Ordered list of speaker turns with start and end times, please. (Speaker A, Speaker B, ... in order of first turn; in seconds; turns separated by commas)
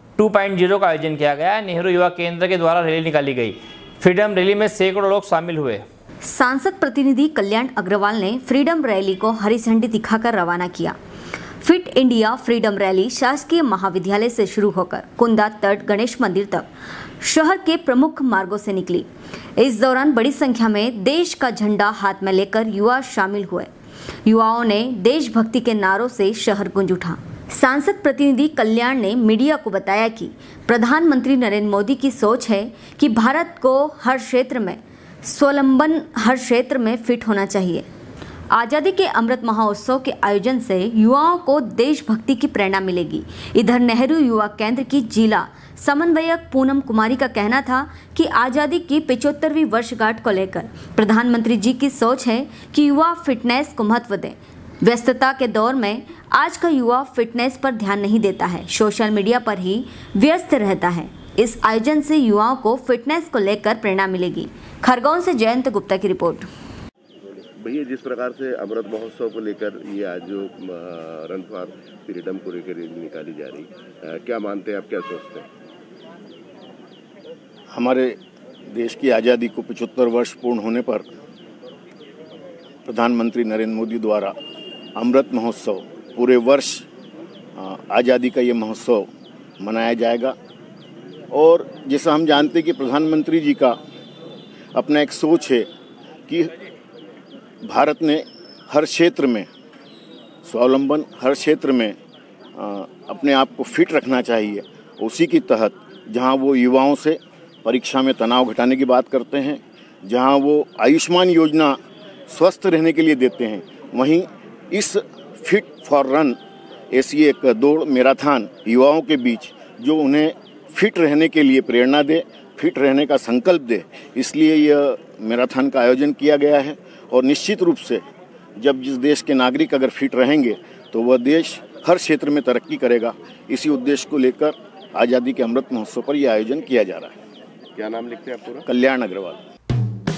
Speaker A: 0.2-5.8, Speaker B: 6.2-10.9, Speaker B: 11.6-16.7, Speaker B: 17.2-19.1, Speaker B: 19.6-23.7, Speaker B: 24.2-37.9, Speaker B: 38.5-66.5, Speaker C: 67.6-75.5, Speaker D: 77.7-78.2, Speaker D: 78.7-81.1, Speaker D: 82.8-84.3, Speaker D: 85.0-86.8, Speaker D: 87.5-89.1, Speaker D: 89.6-90.3, Speaker D: 91.3-93.8, Speaker D: 94.7-95.7, Speaker D: 97.6-99.5, Speaker D: 100.4-102.0, Speaker D: 102.5-116.4, Speaker D: 116.9-128.0, Speaker D: 128.6-137.1, Speaker C: 137.7-138.7, Speaker D: 138.7-139.4